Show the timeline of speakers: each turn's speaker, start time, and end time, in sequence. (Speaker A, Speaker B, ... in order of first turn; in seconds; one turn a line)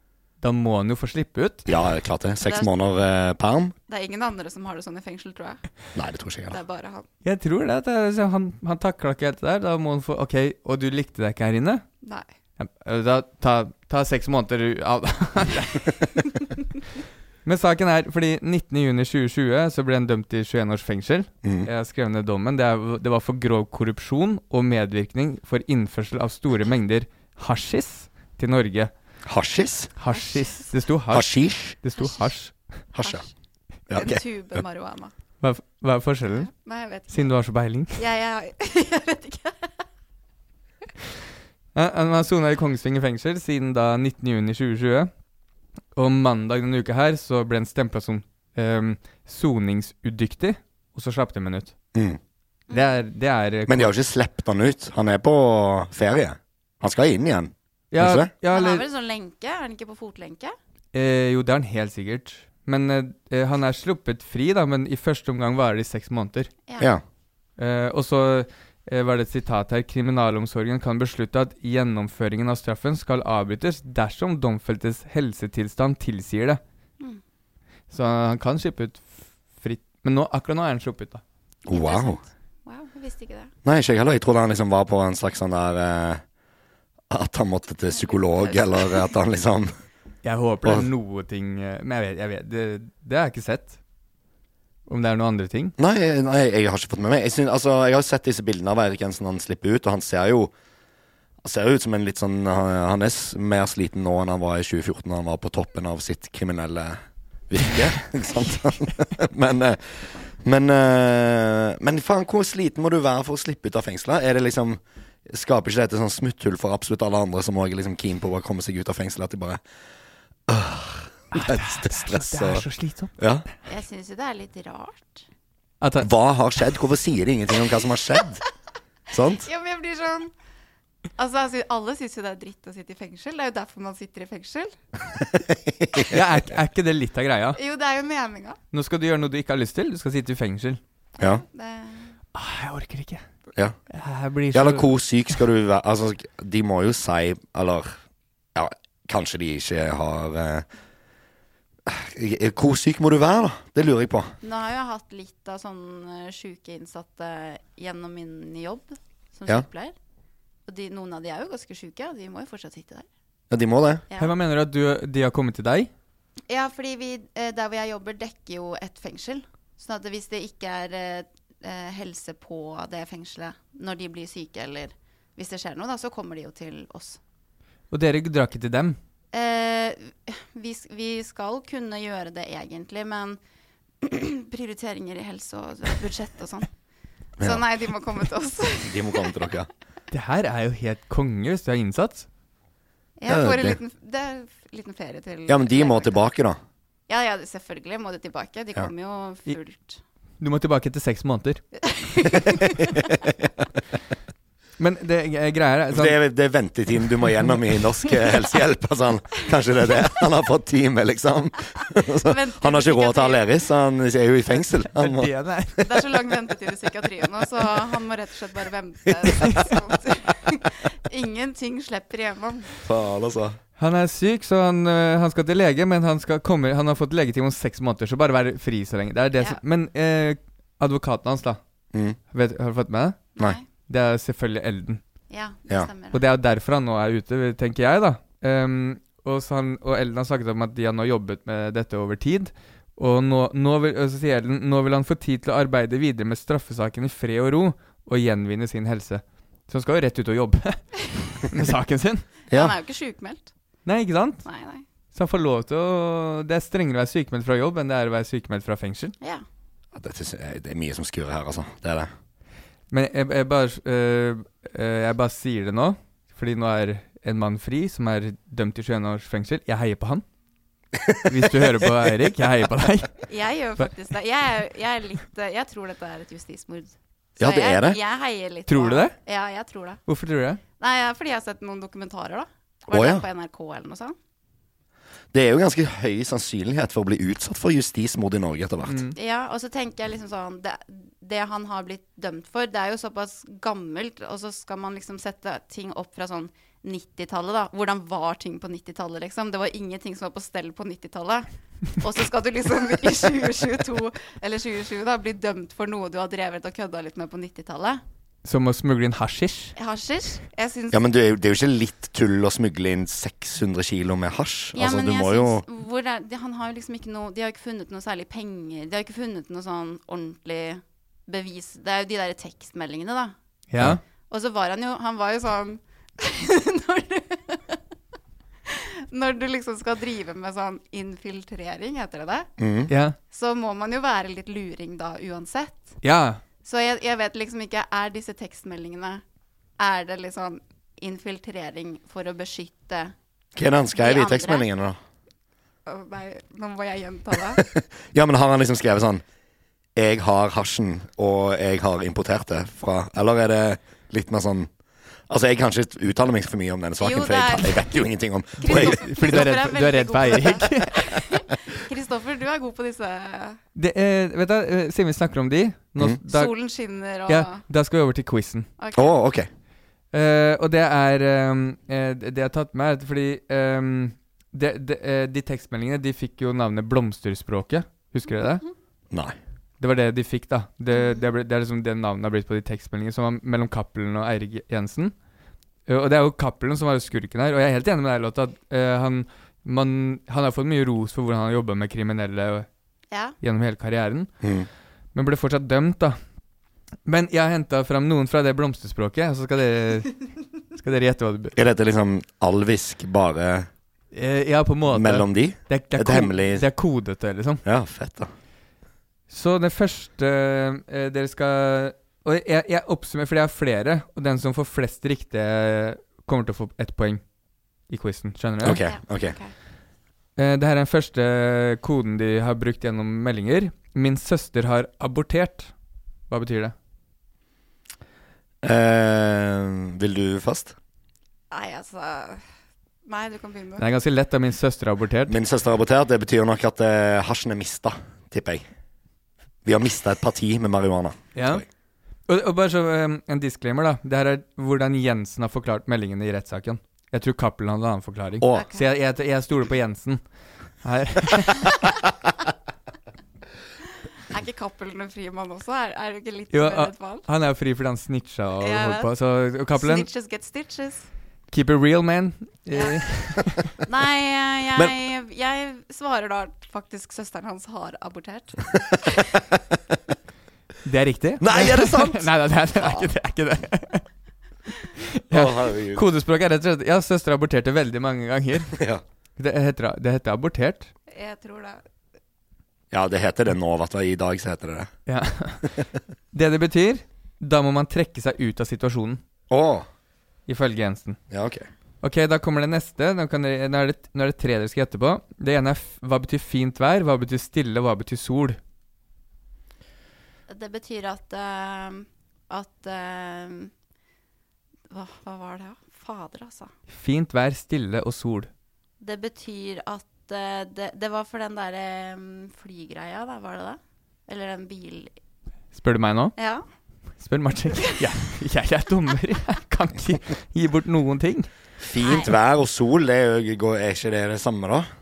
Speaker A: 0.4-1.6
Speaker B: 1.7-3.7
Speaker C: 2.4-2.7
Speaker C: 3.9-5.7
Speaker B: 5.9-6.6
Speaker C: 6.5-7.1
Speaker A: 7.2-11.8
Speaker A: 12.6-15.9
Speaker A: 17.4-28.9
Speaker B: 21.4-21.7
Speaker B: 29.2-29.9
Speaker A: 30.0-32.5
Speaker C: 30.1-30.7
Speaker B: 31.1-31.8
Speaker C: 31.9-32.3
Speaker B: 32.9-33.2
Speaker C: 33.0-33.2
Speaker B: 33.9-34.2
Speaker C: 33.9-35.1
Speaker A: 35.4-36.5
Speaker C: 36.3-37.3
Speaker A: 37.1-38.0
Speaker C: 37.9-39.7
Speaker A: 41.7-45.1
Speaker A: 45.9-51.7
Speaker B: 51.9-52.2
Speaker C: 52.7-53.0
Speaker A: 52.7-53.9
Speaker B: 53.7-58.3
Speaker A: 57.9-58.8
Speaker C: 58.5-60.5
Speaker A: 60.9-66.5
Speaker B: 66.8-67.0
Speaker A: 67.6-76.6
Speaker A: 77.9-81.2
Speaker B: 81.7-82.2
Speaker C: 81.7-83.5
Speaker B: 83.6-86.2
Speaker B: 87.1-89.7
Speaker C: 87.9-89.1
Speaker A: 90.2-93.8
Speaker A: 94.9-95.7
Speaker B: 95.8-100.5
Speaker B: 101.4-107.0
Speaker B: 107.5-119.6
Speaker B: 120.5-122.6
Speaker A: 121.3-123.2
Speaker B: 123.2-123.5
Speaker C: 123.7-125.2
Speaker A: 125.8-126.1
Speaker B: 126.0-128.4
Speaker B: 129.1-129.5
Speaker C: 129.4-130.3
Speaker C: 131.2-134.8
Speaker B: 135.3-136.2
Speaker A: 136.1-137.6
Speaker C: 137.6-138.6
Speaker A: 138.7-140.8
Speaker B: 141.2-141.4
Speaker C: 141.5-142.1
Speaker A: 142.3-143.2
Speaker A: 143.9-144.9
Speaker B: 144.5-147.9
Speaker B: 148.5-150.7
Speaker B: 151.8-154.3
Speaker C: 154.4-159.9
Speaker C: 160.7-163.1
Speaker B: 163.5-164.0
Speaker A: 164.2-165.9
Speaker C: 166.5-177.2
Speaker A: 177.9-179.0
Speaker C: 179.3-183.4
Speaker C: 184.0-186.7
Speaker C: 187.4-189.3
Speaker B: 188.8-189.7
Speaker A: 190.1-192.3
Speaker C: 193.2-196.2
Speaker B: 193.3-193.8
Speaker B: 195.5-196.6
Speaker C: 197.1-200.0
Speaker A: 200.4-201.6
Speaker C: 201.8-203.1
Speaker A: 204.8-206.2
Speaker B: 205.9-215.3
Speaker C: 212.2-213.4
Speaker A: 214.9-215.9
Speaker C: 215.8-222.7
Speaker A: 219.4-219.6
Speaker B: 222.8-223.6
Speaker A: 223.8-231.6
Speaker B: 231.9-232.2
Speaker A: 232.3-233.3
Speaker C: 233.4-233.6
Speaker A: 233.9-235.0
Speaker C: 235.3-236.2
Speaker A: 236.1-252.2
Speaker C: 252.5-253.5
Speaker A: 253.8-254.4
Speaker C: 254.4-254.8
Speaker A: 255.1-259.1
Speaker B: 259.9-262.1
Speaker A: 262.9-270.2
Speaker A: 271.3-273.2
Speaker C: 273.3-280.0
Speaker B: 277.4-278.0
Speaker A: 278.7-279.1
Speaker A: 280.1-280.6
Speaker C: 280.8-284.1
Speaker B: 282.9-283.2
Speaker B: 285.3-289.0
Speaker A: 288.9-289.1
Speaker C: 289.1-308.0
Speaker A: 308.4-309.7
Speaker C: 309.8-311.0
Speaker B: 310.9-315.6
Speaker C: 314.7-323.3
Speaker A: 323.7-324.0
Speaker C: 324.3-327.8
Speaker C: 328.6-332.5
Speaker B: 332.6-332.9
Speaker A: 332.9-333.1
Speaker C: 333.3-335.9
Speaker A: 336.0-336.4
Speaker C: 336.6-339.2
Speaker C: 339.8-343.1
Speaker B: 343.6-345.0
Speaker C: 343.9-344.7
Speaker C: 345.9-347.6
Speaker B: 347.6-349.2
Speaker B: 349.9-354.7
Speaker B: 355.3-359.4
Speaker C: 357.0-357.9
Speaker C: 358.6-363.6
Speaker A: 358.7-360.9
Speaker A: 363.8-366.5
Speaker C: 366.3-367.6
Speaker A: 367.3-368.7
Speaker C: 368.8-369.1
Speaker B: 368.9-369.5
Speaker A: 370.1-378.6
Speaker B: 379.1-379.4
Speaker A: 379.8-385.1
Speaker C: 380.9-381.3
Speaker A: 385.9-392.7
Speaker C: 393.1-393.4
Speaker A: 393.4-394.3
Speaker B: 394.4-394.7
Speaker A: 395.1-396.2
Speaker A: 397.1-400.2
Speaker A: 400.7-401.5
Speaker B: 401.6-403.7
Speaker A: 404.1-407.6
Speaker B: 404.9-406.6
Speaker B: 407.6-408.3
Speaker A: 409.3-417.2
Speaker A: 417.9-418.8
Speaker B: 418.6-419.4
Speaker C: 418.8-419.5
Speaker A: 420.4-425.7
Speaker A: 426.3-426.7
Speaker B: 428.6-430.8
Speaker C: 431.5-432.4
Speaker C: 433.0-433.8
Speaker A: 433.8-435.4
Speaker B: 435.3-438.6
Speaker B: 439.6-441.6
Speaker A: 441.3-441.6
Speaker A: 442.3-450.2
Speaker B: 448.4-448.7
Speaker C: 448.5-448.9
Speaker A: 450.8-451.7
Speaker C: 454.3-457.2
Speaker A: 456.5-460.1
Speaker C: 458.6-461.1
Speaker A: 461.5-463.7
Speaker C: 462.7-463.3
Speaker C: 463.8-469.5
Speaker A: 470.8-474.0
Speaker B: 471.4-473.1
Speaker A: 475.1-478.7
Speaker B: 475.3-476.0
Speaker B: 478.7-479.0
Speaker A: 479.4-480.9
Speaker C: 481.1-481.8
Speaker B: 482.9-484.9
Speaker A: 485.1-485.8
Speaker A: 486.3-489.2
Speaker B: 489.5-489.9
Speaker A: 490.5-491.2
Speaker B: 491.3-491.7
Speaker A: 492.0-498.6
Speaker C: 500.5-503.7
Speaker C: 504.9-506.7
Speaker A: 506.9-508.5
Speaker C: 509.0-515.1
Speaker A: 515.7-516.4
Speaker C: 516.4-516.6
Speaker A: 517.2-521.5
Speaker B: 521.8-524.9
Speaker C: 522.0-522.3